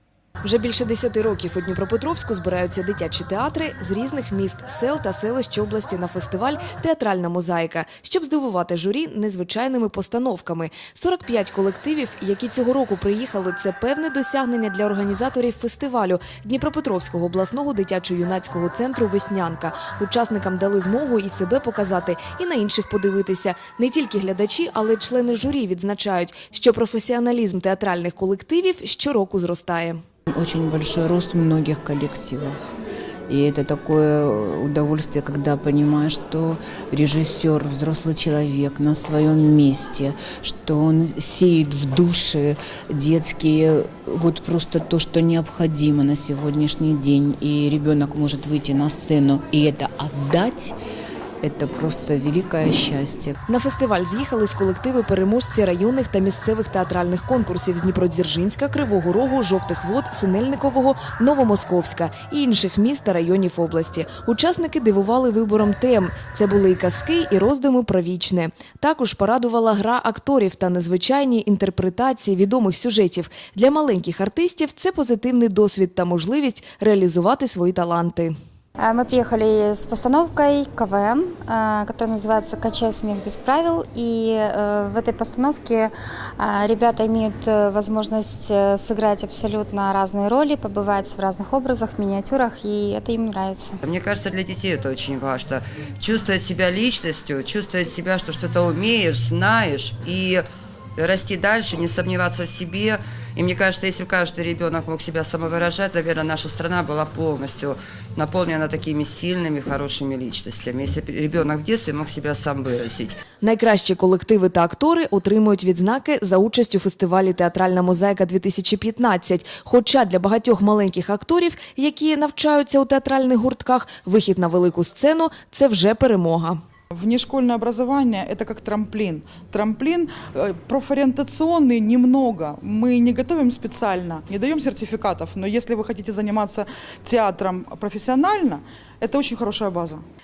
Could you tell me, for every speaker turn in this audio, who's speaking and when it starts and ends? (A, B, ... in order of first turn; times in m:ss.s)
0:00.4-0:30.0 A
0:30.3-0:32.6 B
0:33.3-0:50.7 B
0:51.4-0:53.4 B
0:53.5-1:18.3 A
1:18.8-1:33.8 C
1:33.8-1:40.4 D
1:41.0-1:53.2 D
1:53.4-2:06.6 A
2:06.9-2:20.0 E